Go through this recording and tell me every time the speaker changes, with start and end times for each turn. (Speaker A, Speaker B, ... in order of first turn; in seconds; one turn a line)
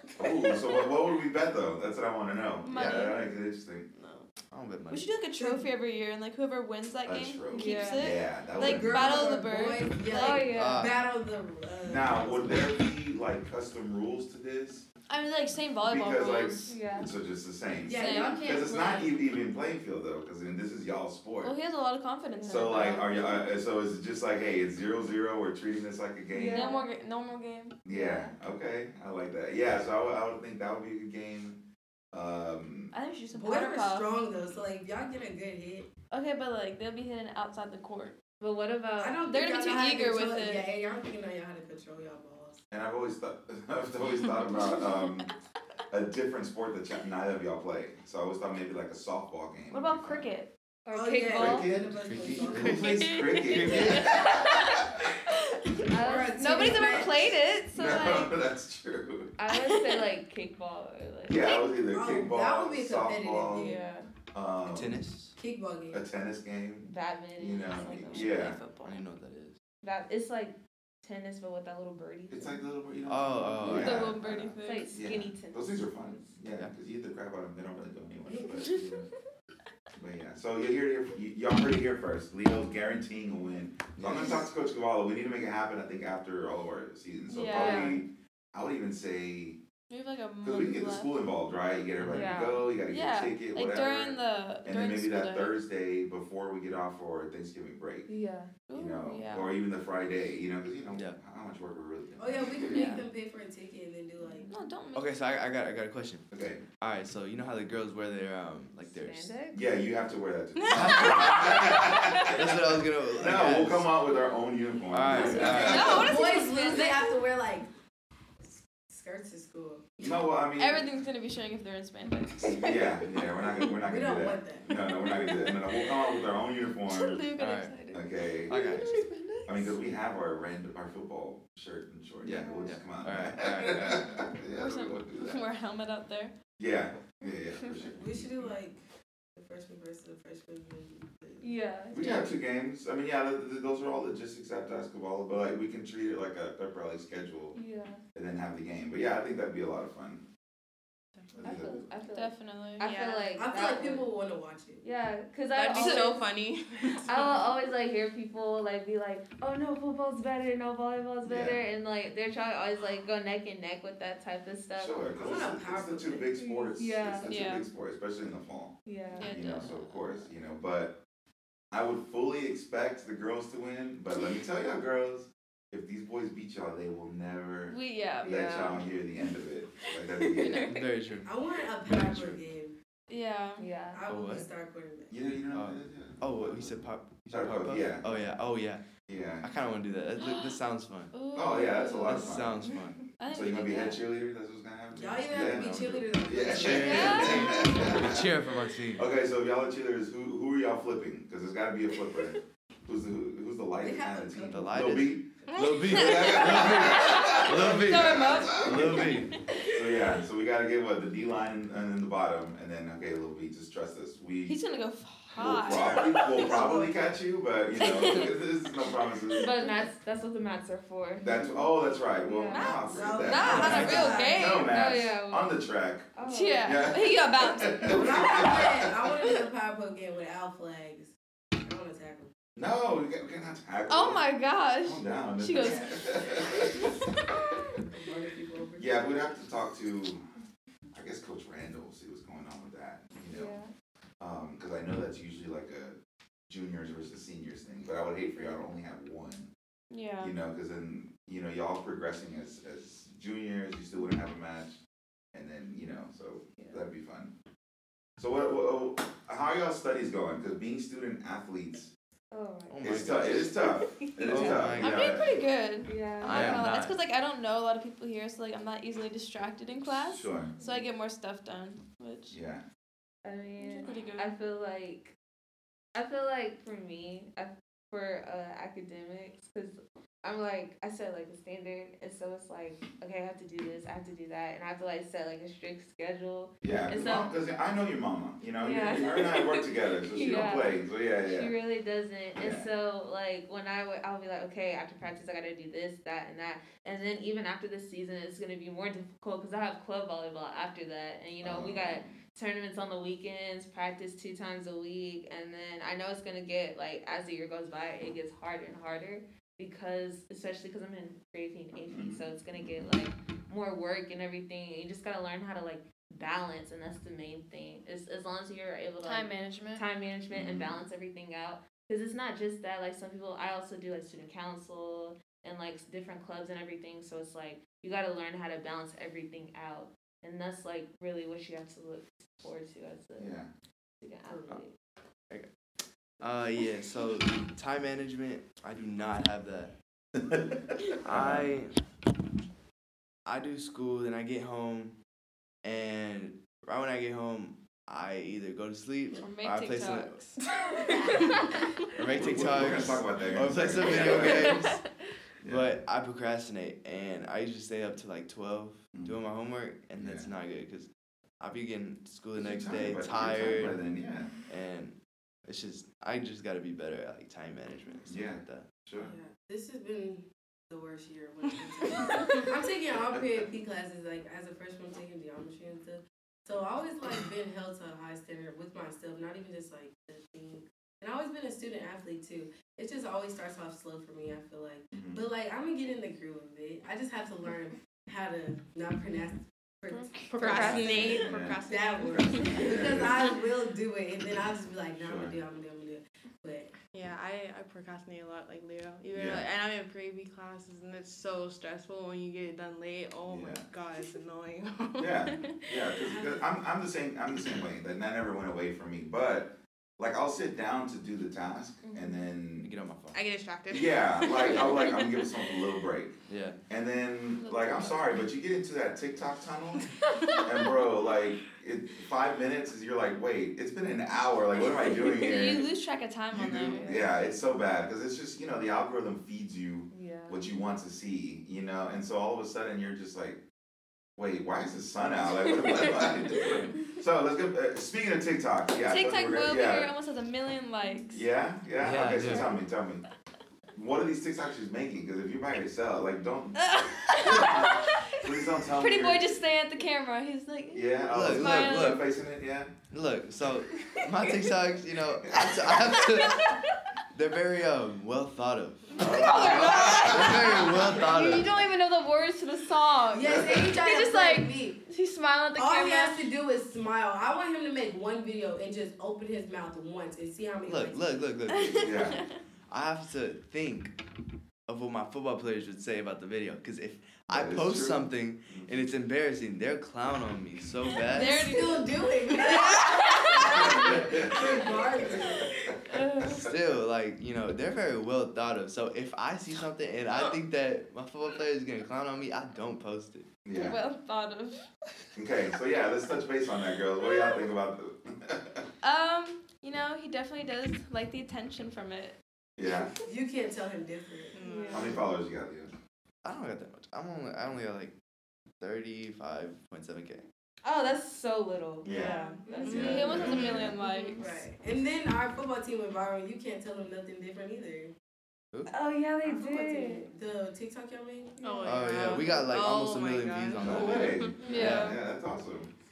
Speaker A: 0.2-3.9
Speaker B: 2.6-3.3
Speaker B: 4.0-4.3
Speaker C: 4.5-5.1
Speaker B: 4.9-10.5
Speaker A: 7.0-9.4
Speaker D: 7.5-8.2
Speaker E: 8.6-12.7
Speaker D: 10.1-10.9
Speaker C: 10.5-11.0
Speaker A: 11.8-14.9
Speaker B: 15.1-16.7
Speaker A: 15.8-21.6
Speaker D: 16.7-17.1
Speaker E: 17.9-19.1
Speaker B: 17.9-19.0
Speaker B: 21.4-23.4
Speaker D: 22.4-23.0
Speaker A: 22.5-26.7
Speaker D: 26.3-26.9
Speaker B: 26.5-27.8
Speaker A: 27.9-32.9
Speaker D: 27.9-28.3
Speaker B: 32.9-34.2
Speaker E: 33.3-35.9
Speaker B: 36.1-38.2
Speaker D: 38.4-39.2
Speaker E: 39.0-42.6
Speaker B: 39.3-40.7
Speaker A: 42.7-45.3
Speaker A: 45.9-50.3
Speaker B: 49.7-50.5
Speaker D: 50.9-51.7
Speaker E: 50.9-54.1
Speaker A: 51.3-55.1
Speaker C: 51.9-54.1
Speaker B: 52.8-58.4
Speaker E: 55.8-57.4
Speaker D: 55.8-56.8
Speaker A: 57.7-59.3
Speaker D: 59.4-61.5
Speaker B: 59.7-60.0
Speaker A: 61.2-63.7
Speaker E: 61.9-63.9
Speaker D: 63.5-64.1
Speaker A: 64.3-65.0
Speaker C: 64.7-65.4
Speaker E: 65.4-66.0
Speaker A: 65.9-68.6
Speaker D: 66.8-68.4
Speaker B: 67.7-69.0
Speaker C: 68.8-69.6
Speaker D: 69.8-72.6
Speaker A: 72.3-79.1
Speaker C: 73.1-74.2
Speaker B: 73.6-74.9
Speaker D: 74.6-76.3
Speaker B: 78.5-78.9
Speaker A: 80.0-89.6
Speaker C: 84.0-84.5
Speaker B: 87.3-88.0
Speaker D: 87.5-88.0
Speaker B: 89.9-91.2
Speaker A: 90.4-98.1
Speaker C: 92.0-92.3
Speaker D: 92.1-92.7
Speaker B: 92.9-95.6
Speaker D: 98.1-98.5
Speaker B: 98.7-99.5
Speaker A: 98.7-102.9
Speaker C: 100.9-101.2
Speaker E: 102.2-104.5
Speaker B: 102.7-103.1
Speaker B: 104.5-105.1
Speaker C: 104.9-109.3
Speaker A: 106.3-106.6
Speaker D: 108.8-109.6
Speaker A: 109.5-116.2
Speaker C: 110.7-111.5
Speaker B: 110.8-112.3
Speaker C: 112.2-113.9
Speaker C: 114.9-116.2
Speaker E: 115.1-117.7
Speaker B: 115.4-117.2
Speaker E: 118.5-120.2
Speaker A: 120.0-120.9
Speaker B: 120.6-123.7
Speaker A: 122.5-127.3
Speaker E: 123.8-124.7
Speaker B: 125.0-126.0
Speaker B: 126.8-129.8
Speaker C: 127.4-127.8
Speaker A: 127.9-128.8
Speaker C: 128.5-129.1
Speaker A: 129.5-135.4
Speaker C: 132.2-134.3
Speaker D: 132.2-132.7
Speaker B: 134.4-136.3
Speaker A: 136.6-138.3
Speaker E: 137.9-138.8
Speaker E: 139.4-141.5
Speaker D: 141.4-142.4
Speaker A: 141.9-147.6
Speaker D: 147.6-148.0
Speaker A: 148.2-150.3
Speaker A: 151.3-151.9
Speaker D: 151.4-154.1
Speaker B: 152.1-153.3
Speaker E: 153.4-154.8
Speaker D: 154.8-156.2
Speaker B: 155.6-157.4
Speaker F: 155.7-156.5
Speaker D: 157.0-165.1
Speaker A: 161.2-161.6
Speaker A: 164.8-171.0
Speaker E: 165.2-166.3
Speaker D: 166.4-167.4
Speaker B: 167.3-167.7
Speaker D: 168.9-169.4
Speaker B: 169.2-170.3
Speaker A: 171.7-180.7
Speaker B: 177.7-178.8
Speaker D: 178.2-178.8
Speaker B: 179.8-180.9
Speaker C: 180.5-181.3
Speaker E: 181.2-182.8
Speaker C: 181.8-182.4
Speaker B: 183.1-183.7
Speaker D: 183.6-184.0
Speaker E: 183.9-185.2
Speaker C: 184.1-184.5
Speaker A: 185.1-188.2
Speaker C: 185.5-188.8
Speaker A: 189.1-189.5
Speaker C: 189.4-191.2
Speaker B: 190.2-190.6
Speaker B: 191.1-192.5
Speaker A: 191.3-192.6
Speaker C: 192.0-193.1
Speaker B: 193.2-194.0
Speaker A: 193.3-198.4
Speaker E: 195.0-198.0
Speaker C: 196.5-199.1
Speaker B: 196.6-197.8
Speaker A: 198.9-205.3
Speaker E: 203.8-206.2
Speaker C: 204.5-209.4
Speaker B: 205.6-209.8
Speaker A: 205.8-214.6
Speaker B: 214.4-216.8
Speaker A: 215.3-219.7
Speaker E: 216.3-216.8
Speaker B: 217.7-219.7
Speaker D: 219.4-221.7
Speaker A: 221.2-226.1
Speaker D: 222.2-222.8
Speaker B: 222.5-224.7
Speaker E: 222.9-224.7
Speaker C: 223.6-223.8
Speaker D: 224.6-225.6
Speaker D: 226.2-226.9
Speaker B: 226.3-229.3
Speaker A: 226.6-229.1
Speaker E: 227.8-232.3
Speaker A: 232.6-234.2
Speaker B: 233.9-237.2
Speaker A: 234.8-237.0
Speaker E: 237.8-239.2
Speaker A: 238.8-240.3
Speaker A: 240.9-243.6
Speaker D: 243.3-243.7
Speaker A: 244.2-246.0
Speaker A: 246.5-249.5
Speaker B: 249.9-250.3
Speaker A: 250.2-254.8
Speaker A: 255.3-257.3
Speaker D: 256.6-256.8
Speaker A: 258.2-261.9
Speaker D: 262.3-263.0
Speaker C: 262.7-263.7
Speaker A: 262.8-265.3
Speaker C: 264.2-265.2
Speaker D: 264.2-264.7
Speaker B: 264.8-272.4
Speaker D: 265.8-266.4
Speaker C: 266.2-267.0
Speaker A: 266.3-266.6
Speaker A: 269.9-270.6
Speaker A: 272.3-272.6
Speaker D: 273.2-275.1
Speaker B: 273.6-274.3
Speaker D: 275.9-287.3
Speaker A: 286.6-291.5
Speaker D: 288.6-333.4
Speaker A: 292.4-292.7
Speaker A: 301.4-302.2
Speaker A: 311.9-312.2
Speaker B: 319.0-319.9
Speaker A: 320.3-320.8
Speaker A: 333.2-333.5
Speaker D: 334.0-334.7
Speaker E: 334.3-334.6
Speaker C: 336.2-339.7
Speaker A: 340.2-341.5
Speaker C: 341.0-341.8
Speaker C: 343.2-345.0
Speaker C: 345.6-350.3
Speaker B: 349.2-350.4
Speaker D: 350.5-351.7
Speaker C: 352.0-354.8
Speaker A: 352.1-354.6
Speaker D: 354.0-354.8
Speaker A: 355.4-355.7
Speaker C: 355.4-363.8
Speaker A: 360.0-360.3
Speaker A: 362.4-364.3
Speaker C: 364.5-368.8
Speaker A: 368.1-369.1
Speaker E: 369.0-396.8
Speaker F: 371.9-372.5
Speaker A: 373.1-373.4
Speaker A: 384.9-385.2
Speaker F: 390.1-392.9
Speaker D: 390.4-390.9
Speaker B: 390.4-390.9
Speaker A: 390.6-393.3
Speaker A: 395.0-395.4
Speaker F: 396.9-406.1
Speaker A: 399.1-399.5
Speaker A: 403.3-403.7
Speaker A: 405.0-412.7
Speaker E: 406.1-406.4
Speaker D: 411.8-412.2
Speaker C: 412.6-413.2
Speaker F: 413.1-415.5
Speaker A: 413.7-425.7
Speaker C: 416.3-416.6
Speaker B: 417.4-418.2
Speaker F: 420.2-420.5
Speaker B: 424.7-427.1
Speaker A: 426.3-433.4
Speaker D: 426.7-427.2
Speaker D: 429.9-430.4
Speaker A: 434.2-439.9
Speaker B: 438.9-441.2
Speaker A: 441.1-443.0
Speaker C: 441.8-442.5
Speaker A: 443.8-449.4
Speaker B: 446.6-452.1
Speaker A: 450.7-452.8
Speaker C: 451.1-452.1
Speaker C: 452.9-456.6
Speaker A: 455.3-455.7
Speaker B: 455.9-456.7
Speaker C: 457.1-461.7
Speaker A: 458.9-460.6
Speaker B: 459.0-466.3
Speaker D: 461.0-461.7
Speaker E: 463.1-464.8
Speaker E: 465.6-471.2
Speaker C: 470.7-472.0
Speaker B: 471.5-472.4
Speaker A: 471.8-472.2
Speaker C: 472.7-474.0
Speaker C: 474.7-481.5
Speaker A: 477.3-478.8
Speaker B: 481.0-484.6
Speaker E: 481.1-485.7
Speaker A: 483.6-486.5
Speaker B: 485.9-486.4
Speaker C: 486.2-493.3
Speaker A: 493.4-493.8
Speaker B: 493.5-494.7
Speaker A: 495.2-498.7
Speaker B: 498.8-502.2
Speaker A: 502.6-502.9
Speaker E: 503.1-504.8
Speaker F: 504.3-505.0
Speaker D: 504.4-505.0
Speaker A: 504.7-505.7
Speaker C: 506.2-507.9
Speaker C: 508.6-510.3
Speaker D: 510.6-514.3
Speaker A: 511.8-513.8
Speaker F: 511.9-513.2
Speaker B: 511.9-514.2
Speaker E: 512.5-517.9
Speaker D: 518.7-520.1
Speaker E: 519.2-521.4
Speaker D: 521.4-522.0
Speaker F: 521.4-524.5
Speaker C: 521.6-524.9
Speaker A: 523.6-525.7
Speaker B: 524.4-525.0